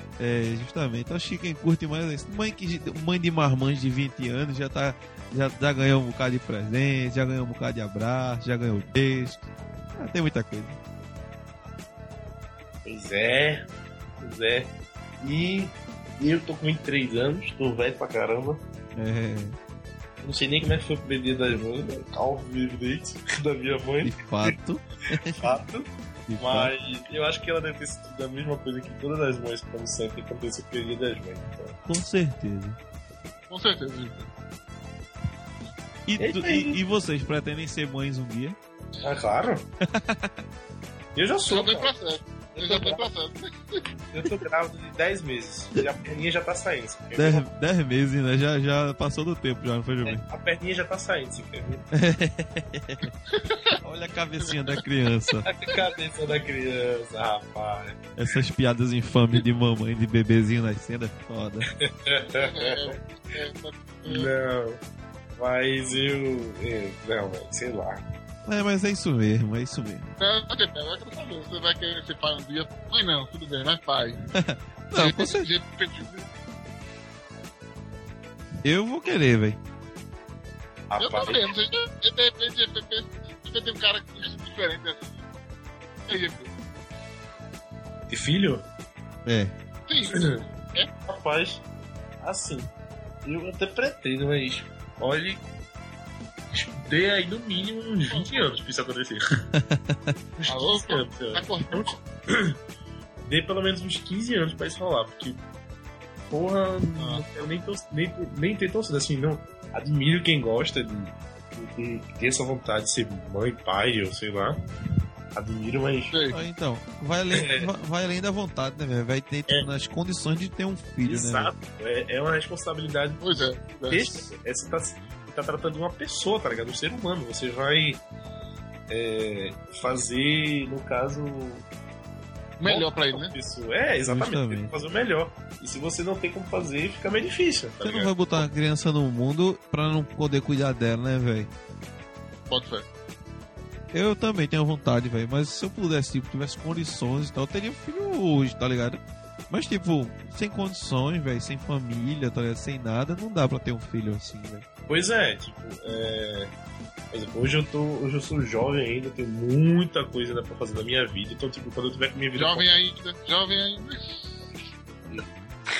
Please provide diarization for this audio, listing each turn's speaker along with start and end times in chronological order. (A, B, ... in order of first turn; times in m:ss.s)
0:00.2-0:10.8 A
0:12.8-0:13.6 B
0:14.2-0:18.6 B
0:19.0-0:19.6 A
0:20.2-0:24.1 B
0:24.0-0:25.5 A
0:25.4-0:31.8 B
0:26.3-0:26.7 A
0:31.8-0:32.8 A
0:33.5-0:34.3 C
0:36.0-0:38.6 A
0:36.2-0:36.8 B
0:39.0-0:39.7 B
0:39.8-0:40.4 A
0:41.1-0:41.9 B
0:41.5-0:43.8 C
0:42.5-0:43.1 B
0:44.1-0:47.5 B
0:47.1-0:50.2 A
0:50.2-0:51.9 B
0:51.9-0:53.1 A
0:53.3-0:53.7 C
0:53.8-0:55.5 A
0:55.6-0:58.0 B
0:58.2-1:01.7 A
1:01.8-1:02.9 B
1:02.3-1:04.3 C
1:04.0-1:04.8 B
1:05.4-1:08.0 B
1:08.4-1:10.1 A
1:10.2-1:14.2 C
1:14.3-1:15.5 A
1:14.9-1:16.3 C
1:18.6-1:19.6 A
1:20.9-1:21.5 B
1:21.0-1:25.2 C
1:26.1-1:26.5 C
1:28.1-1:28.6 B
1:29.2-1:29.5 A
1:29.9-1:30.9 C
1:31.1-1:31.6 B
1:32.2-1:32.7 B
1:33.2-1:35.4 B
1:36.5-1:39.2 B
1:38.1-1:38.5 C
1:39.6-1:40.1 A
1:40.4-1:42.5 B
1:40.5-1:41.9 C
1:43.2-1:45.4 B
1:46.3-1:54.6 B
1:47.0-1:47.2 C
1:55.3-1:56.2 B
1:56.1-1:56.4 C
1:56.3-2:01.5 A
1:57.4-1:57.7 B
2:01.0-2:08.0 B
2:03.2-2:04.2 C
2:08.9-2:11.7 B
2:12.6-2:13.3 C
2:12.6-2:18.4 B
2:14.0-2:14.7 A
2:17.8-2:21.5 A
2:22.5-2:22.8 C
2:23.9-2:34.6 A
2:34.9-2:36.5 B
2:37.1-2:42.7 B
2:42.4-2:44.7 C
2:44.9-2:45.3 B